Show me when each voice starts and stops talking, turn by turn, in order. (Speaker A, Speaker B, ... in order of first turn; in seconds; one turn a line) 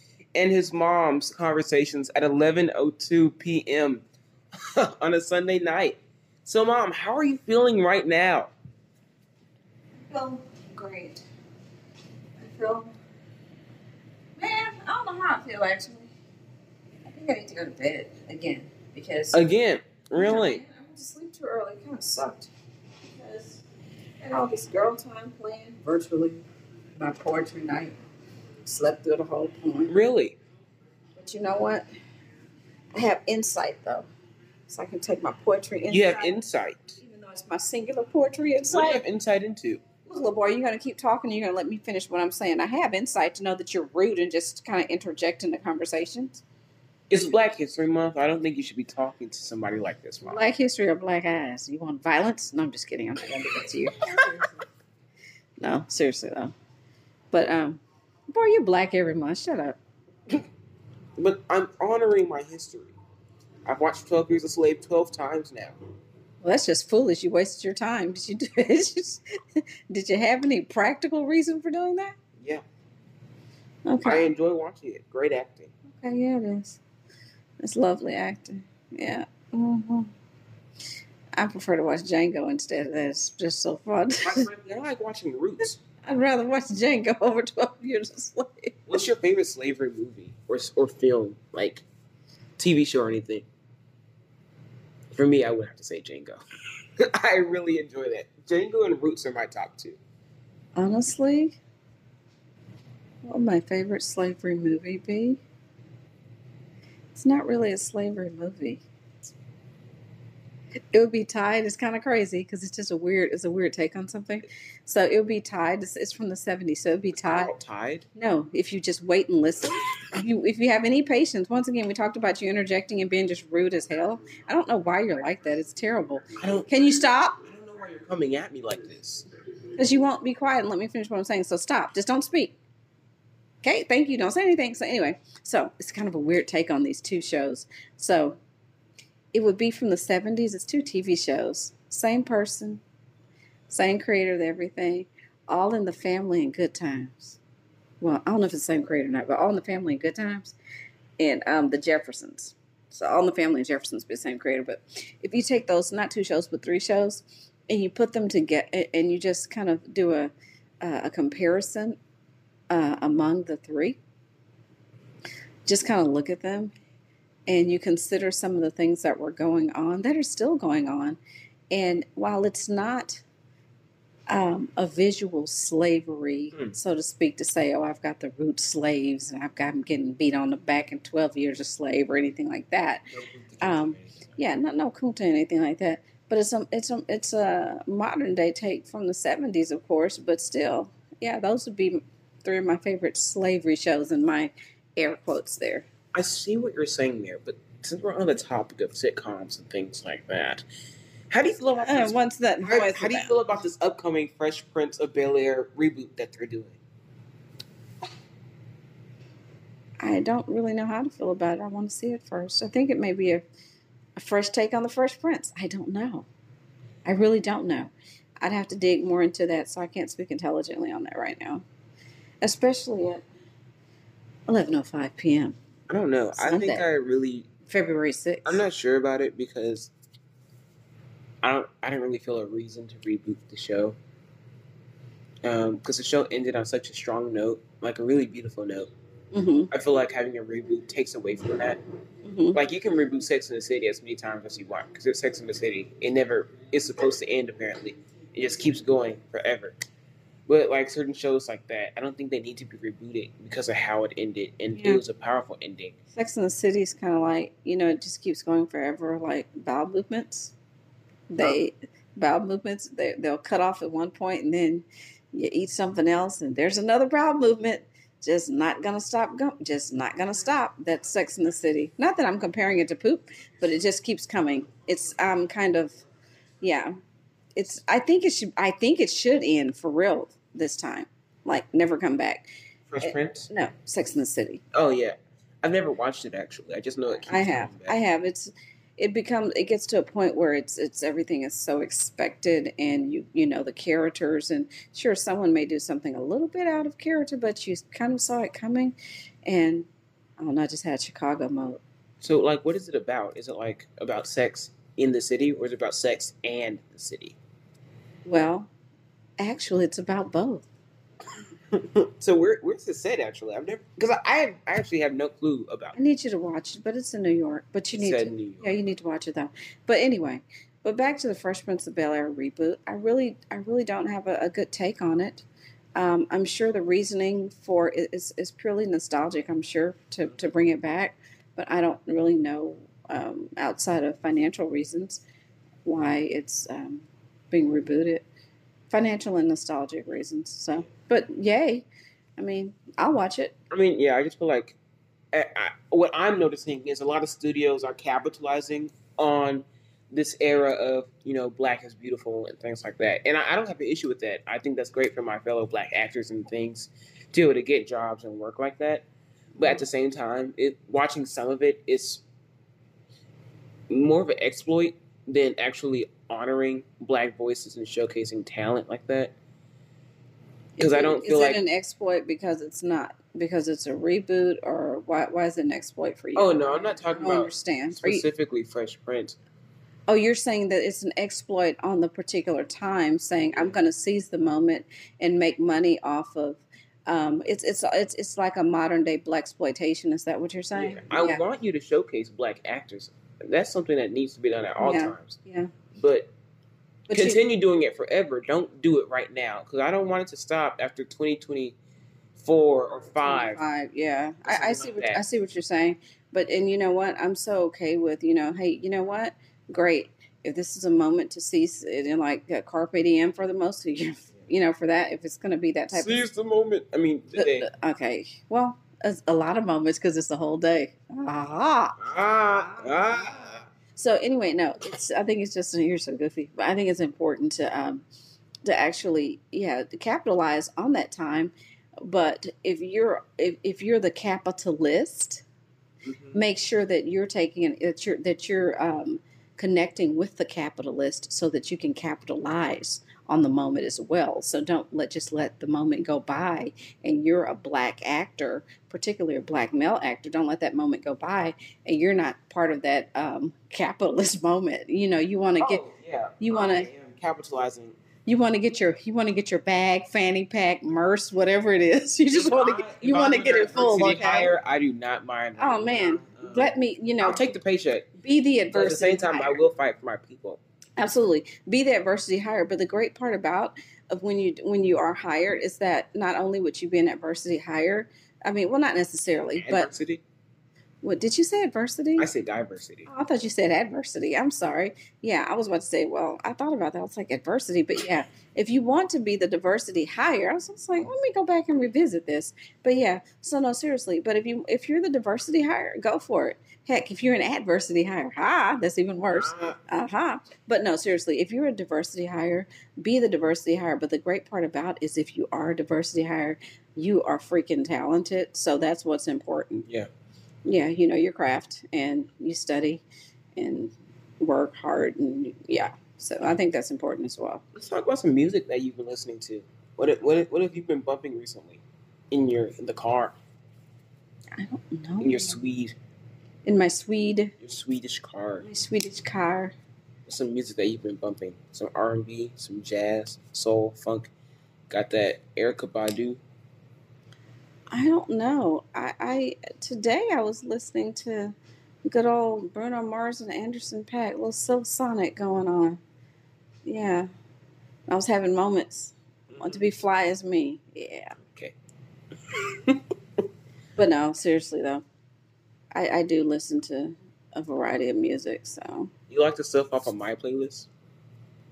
Speaker A: 0.3-4.0
Speaker A: 4.7-8.5
Speaker B: 10.1-11.2
Speaker B: 12.4-12.9
Speaker B: 14.4-16.1
Speaker B: 17.1-19.4
Speaker A: 19.3-20.6
Speaker B: 20.1-22.5
Speaker B: 23.1-23.6
Speaker B: 24.2-26.4
Speaker B: 26.9-27.9
Speaker B: 28.6-29.9
Speaker A: 29.9-30.4
Speaker B: 31.2-31.9
Speaker B: 32.9-34.1
Speaker B: 34.7-36.3
Speaker A: 35.9-37.0
Speaker B: 37.0-39.0
Speaker A: 38.7-39.8
Speaker B: 40.0-46.4
Speaker A: 47.1-50.5
Speaker B: 50.2-54.5
Speaker B: 55.6-56.5
Speaker B: 57.3-59.8
Speaker A: 61.2-62.9
Speaker A: 63.6-65.8
Speaker B: 66.4-72.2
Speaker B: 73.8-74.2
Speaker A: 74.0-75.7
Speaker B: 75.9-76.8
Speaker B: 77.6-80.1
Speaker B: 81.3-84.5
Speaker A: 84.2-85.8
Speaker B: 86.0-89.0
Speaker A: 88.9-91.8
Speaker A: 92.6-93.5
Speaker A: 95.1-96.4
Speaker A: 97.0-100.0
Speaker B: 100.8-101.6
Speaker B: 103.2-105.4
Speaker B: 107.1-108.8
Speaker B: 110.9-117.5
Speaker A: 117.2-118.0
Speaker B: 118.1-127.4
Speaker A: 126.4-126.7
Speaker A: 127.4-129.3
Speaker B: 129.8-132.6
Speaker B: 133.6-138.4
Speaker B: 139.3-142.8
Speaker B: 143.7-147.4
Speaker B: 148.0-150.6
Speaker B: 151.2-162.0
Speaker B: 162.7-164.0
Speaker B: 165.6-166.7
Speaker B: 167.5-171.2
Speaker B: 171.7-173.2
Speaker B: 174.3-183.1
Speaker A: 183.1-184.3
Speaker B: 183.6-195.8
Speaker A: 196.1-200.6
Speaker A: 201.3-206.8
Speaker B: 201.8-203.3
Speaker B: 210.0-213.4
Speaker B: 214.2-216.3
Speaker B: 217.0-221.6
Speaker B: 222.4-223.2
Speaker B: 224.5-225.6
Speaker A: 225.9-227.5
Speaker B: 226.3-226.9
Speaker B: 227.7-228.6
Speaker A: 228.4-229.9
Speaker A: 231.4-233.9
Speaker A: 235.4-238.9
Speaker B: 239.3-239.7
Speaker A: 239.7-241.8
Speaker B: 242.2-242.6
Speaker A: 242.5-249.8
Speaker A: 250.5-255.9
Speaker B: 254.7-255.0
Speaker B: 256.1-260.5
Speaker B: 261.3-276.0
Speaker B: 276.6-276.9
Speaker B: 277.5-282.5
Speaker A: 282.9-283.5
Speaker B: 283.0-284.6
Speaker A: 284.7-288.0
Speaker B: 287.3-299.9
Speaker B: 300.4-301.8
Speaker A: 302.2-307.4
Speaker B: 308.2-308.7
Speaker B: 309.4-310.6
Speaker A: 311.7-315.9
Speaker B: 315.9-325.4
Speaker A: 317.9-318.7
Speaker B: 325.9-335.2
Speaker B: 335.8-338.2
Speaker B: 338.9-343.5
Speaker A: 343.7-344.8
Speaker A: 345.3-359.1
Speaker B: 359.6-359.8
Speaker A: 359.6-362.2
Speaker A: 363.9-369.3
Speaker B: 370.8-378.2
Speaker A: 370.8-371.6
Speaker A: 376.4-379.4
Speaker B: 380.1-391.4
Speaker A: 390.7-395.4
Speaker B: 394.8-395.7
Speaker A: 395.9-396.3
Speaker A: 397.1-401.8
Speaker B: 397.1-397.4
Speaker A: 402.4-403.6
Speaker B: 403.2-416.2
Speaker A: 404.4-405.2
Speaker A: 415.9-417.7
Speaker B: 417.3-422.0
Speaker A: 422.0-423.7
Speaker B: 422.6-428.0
Speaker B: 428.6-435.4
Speaker A: 436.0-436.4
Speaker B: 436.3-455.8
Speaker A: 455.6-458.0
Speaker B: 456.4-456.9
Speaker B: 458.2-464.5
Speaker A: 462.3-468.1
Speaker B: 465.6-467.5
Speaker B: 468.2-469.6
Speaker A: 468.7-470.6
Speaker B: 471.0-479.9
Speaker A: 479.6-480.2
Speaker B: 481.0-482.3
Speaker A: 482.2-483.1
Speaker B: 483.1-509.9
Speaker A: 499.3-499.8
Speaker B: 510.6-513.0
Speaker B: 513.5-517.6
Speaker A: 517.7-523.4
Speaker B: 524.5-525.6
Speaker A: 525.2-525.9
Speaker B: 526.6-527.5
Speaker A: 527.6-528.6
Speaker B: 528.6-529.8
Speaker A: 530.3-534.3
Speaker A: 534.9-536.4
Speaker B: 537.9-546.0
Speaker B: 546.8-547.3
Speaker B: 548.1-551.4
Speaker A: 549.5-549.8
Speaker A: 551.4-551.8
Speaker A: 552.5-553.0
Speaker B: 554.0-555.0
Speaker B: 555.9-559.1
Speaker A: 559.3-560.9